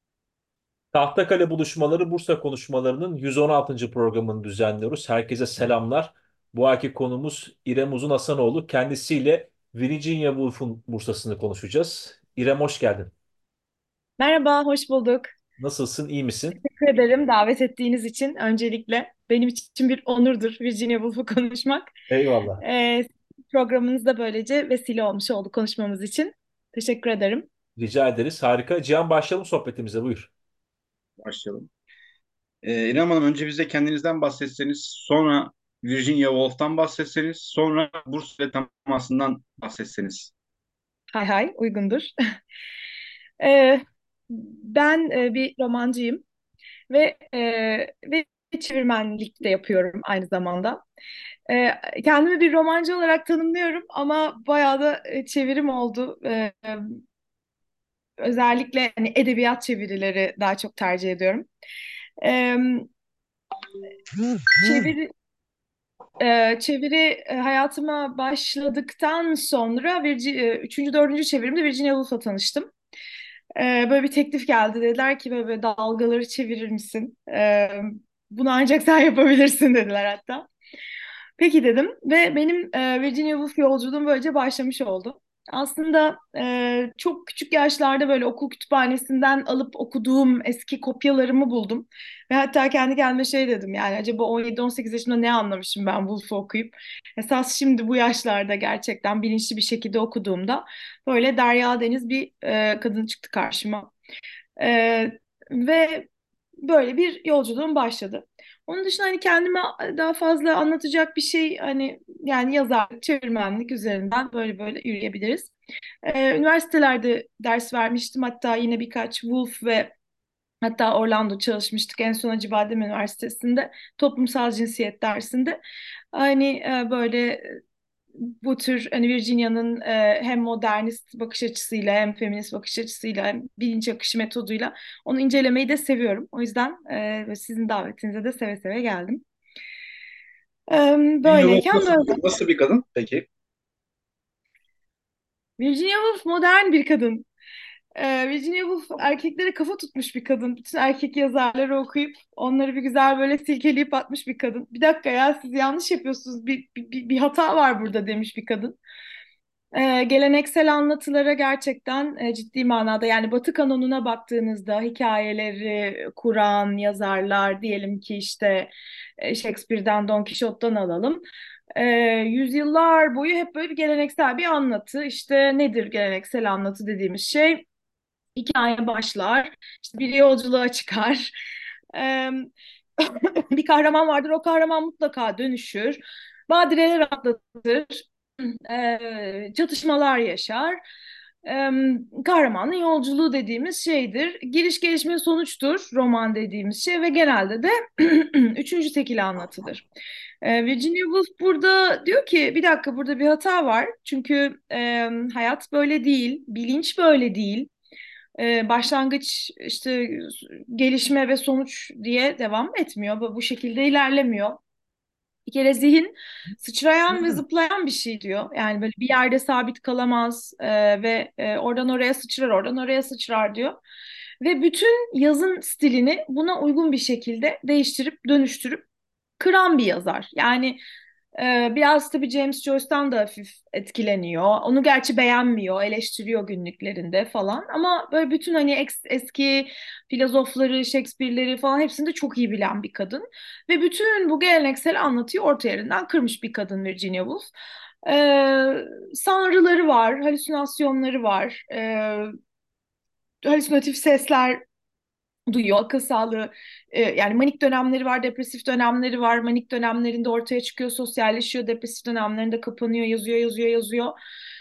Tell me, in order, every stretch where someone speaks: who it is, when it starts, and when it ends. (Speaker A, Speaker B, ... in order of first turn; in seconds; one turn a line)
Speaker A: 0.9-13.1
Speaker B: 14.2-15.3
Speaker A: 15.6-16.6
Speaker B: 16.6-21.9
Speaker A: 22.1-22.6
Speaker B: 22.6-27.5
Speaker A: 27.8-30.3
Speaker C: 31.2-31.7
Speaker C: 32.6-40.3
Speaker B: 41.1-42.1
Speaker B: 43.4-46.2
Speaker B: 46.9-50.8
Speaker B: 51.5-57.0
Speaker B: 58.2-61.5
Speaker B: 62.2-62.9
Speaker B: 64.6-65.1
Speaker B: 66.2-72.7
Speaker B: 73.5-80.5
Speaker B: 81.4-103.9
Speaker B: 104.6-106.1
Speaker B: 106.6-115.5
Speaker B: 116.0-119.9
Speaker B: 120.6-125.6
Speaker B: 126.1-127.5
Speaker B: 128.2-139.2
Speaker B: 140.7-142.2
Speaker C: 141.2-143.2
Speaker B: 145.6-147.2
Speaker B: 147.9-158.8
Speaker B: 159.7-171.2
Speaker B: 171.7-177.6
Speaker B: 178.3-181.3
Speaker B: 181.9-188.1
Speaker B: 188.7-190.8
Speaker B: 191.4-199.8
Speaker B: 200.4-207.7
Speaker B: 208.4-214.6
Speaker B: 215.4-223.8
Speaker B: 224.4-228.8
Speaker B: 229.4-230.8
Speaker B: 231.3-247.5
Speaker B: 248.0-252.3
Speaker B: 253.4-254.6
Speaker B: 255.5-264.1